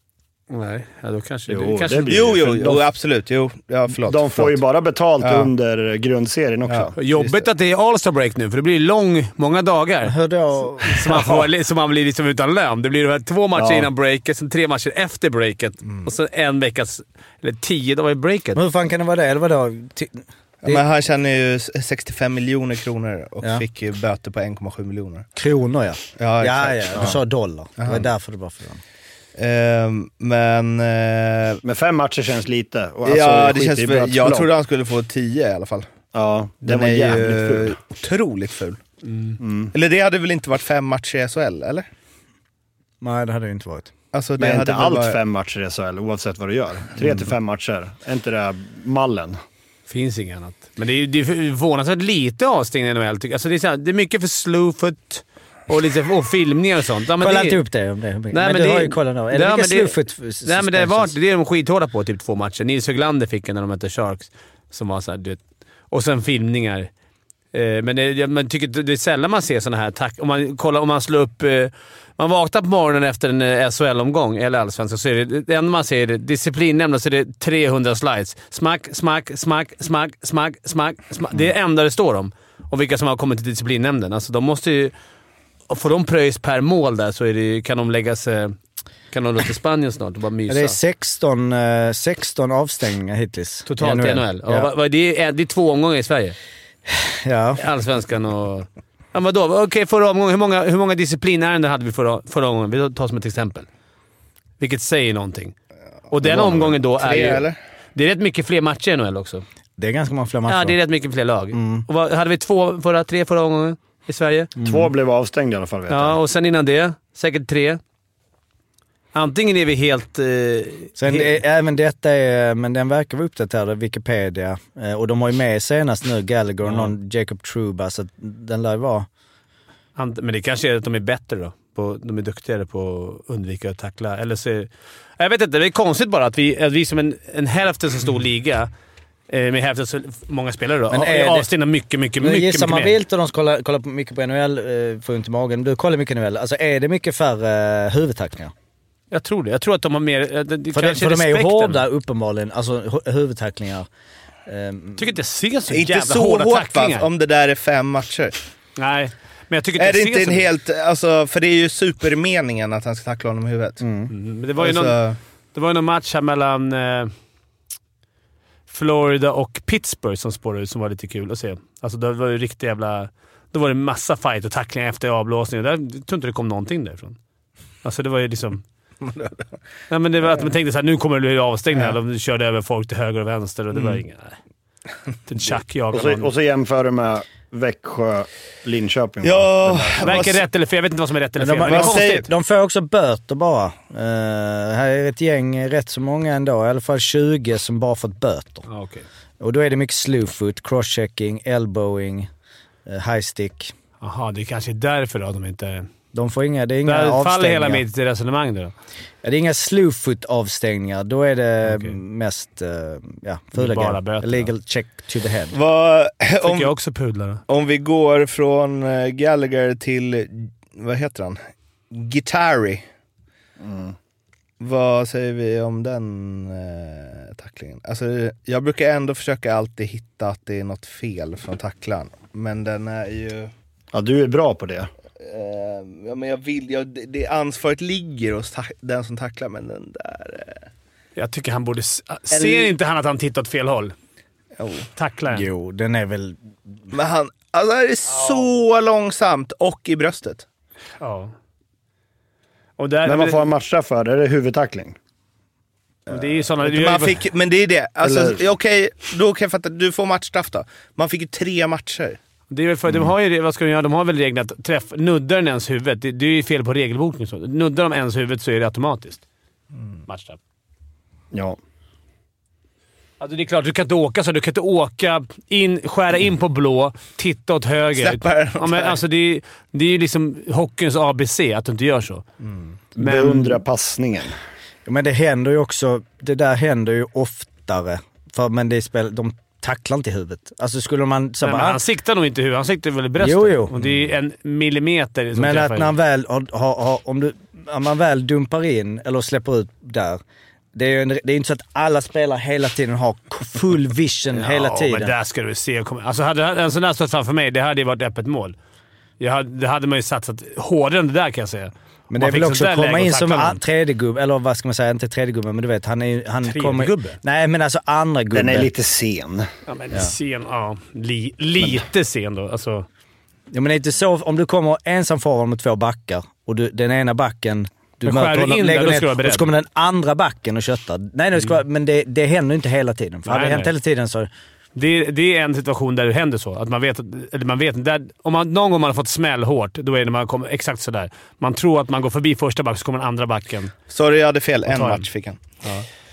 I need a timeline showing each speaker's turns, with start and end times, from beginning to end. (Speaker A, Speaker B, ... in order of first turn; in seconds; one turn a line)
Speaker A: 0.5-2.3
Speaker B: 1.5-2.8
Speaker C: 2.1-4.6
Speaker B: 4.0-7.0
Speaker C: 5.2-5.5
Speaker C: 6.7-6.9
Speaker A: 7.0-10.2
Speaker D: 10.1-11.4
Speaker A: 10.8-18.6
Speaker B: 13.6-13.9
Speaker D: 18.6-20.8
Speaker C: 20.6-25.3
Speaker D: 25.4-28.8
Speaker C: 26.2-27.1
Speaker C: 27.8-28.1
Speaker C: 29.4-31.6
Speaker B: 31.6-34.5
Speaker C: 33.0-35.9
Speaker B: 36.1-37.8
Speaker C: 36.6-38.8
Speaker A: 39.0-39.4
Speaker B: 39.4-39.7
Speaker C: 39.7-41.9
Speaker D: 43.0-43.9
Speaker C: 44.1-45.2
Speaker B: 44.4-49.4
Speaker A: 49.9-57.6
Speaker D: 57.2-61.1
Speaker A: 58.3-66.9
Speaker A: 67.5-84.9
Speaker A: 85.7-88.6
Speaker A: 89.1-90.8
Speaker D: 90.5-94.7
Speaker A: 93.7-96.4
Speaker D: 97.0-97.6
Speaker A: 97.6-103.7
Speaker A: 104.6-105.5
Speaker A: 106.1-109.4
Speaker C: 106.2-107.6
Speaker D: 109.8-110.8
Speaker A: 110.5-114.5
Speaker D: 111.5-111.9
Speaker D: 114.6-114.9
Speaker B: 114.6-116.2
Speaker A: 115.9-117.8
Speaker A: 119.1-121.4
Speaker D: 121.0-129.1
Speaker A: 126.7-126.9
Speaker A: 130.0-138.7
Speaker A: 139.3-143.0
Speaker D: 140.9-141.5
Speaker D: 142.2-148.5
Speaker A: 149.1-151.8
Speaker D: 150.7-153.9
Speaker D: 154.5-155.1
Speaker A: 155.0-157.1
Speaker C: 155.7-158.4
Speaker A: 158.8-160.5
Speaker C: 159.8-163.8
Speaker D: 163.8-164.1
Speaker A: 164.1-165.0
Speaker C: 164.6-165.2
Speaker A: 165.5-167.1
Speaker A: 168.7-177.2
Speaker A: 177.8-178.6
Speaker C: 179.0-179.4
Speaker A: 179.9-184.4
Speaker A: 185.3-186.3
Speaker B: 185.9-190.3
Speaker C: 189.2-190.4
Speaker A: 190.0-192.3
Speaker D: 191.4-198.7
Speaker C: 191.6-192.3
Speaker A: 198.7-199.1
Speaker D: 199.4-202.3
Speaker D: 202.9-203.7
Speaker A: 204.0-205.9
Speaker D: 206.1-207.8
Speaker A: 206.8-208.7
Speaker D: 209.2-215.6
Speaker A: 211.7-212.0
Speaker A: 213.6-214.5
Speaker C: 215.5-216.7
Speaker A: 216.4-217.4
Speaker C: 217.5-221.4
Speaker C: 221.9-222.8
Speaker B: 223.6-223.9
Speaker C: 224.6-233.5
Speaker B: 233.9-234.9
Speaker C: 235.2-240.7
Speaker A: 241.2-243.9
Speaker C: 244.6-244.9
Speaker A: 245.0-245.5
Speaker D: 245.3-246.4
Speaker C: 246.9-250.5
Speaker A: 251.0-251.3
Speaker A: 252.8-253.4
Speaker B: 253.1-255.0
Speaker A: 256.1-257.2
Speaker C: 256.6-262.2
Speaker B: 258.0-258.4
Speaker A: 262.5-269.2
Speaker A: 270.1-270.4
Speaker A: 273.2-282.2
Speaker C: 277.9-279.0
Speaker B: 283.0-284.3
Speaker A: 283.0-283.6
Speaker D: 284.9-291.8
Speaker A: 291.4-295.9
Speaker D: 293.2-293.7
Speaker D: 295.3-300.2
Speaker D: 300.8-305.1
Speaker A: 304.3-308.6
Speaker A: 309.2-313.6
Speaker D: 312.1-318.7
Speaker A: 316.4-317.2
Speaker B: 318.3-319.5
Speaker A: 319.7-322.9
Speaker D: 323.5-334.3
Speaker A: 328.0-329.5
Speaker A: 333.3-333.7
Speaker A: 334.8-343.7
Speaker C: 343.9-345.4
Speaker A: 344.7-345.1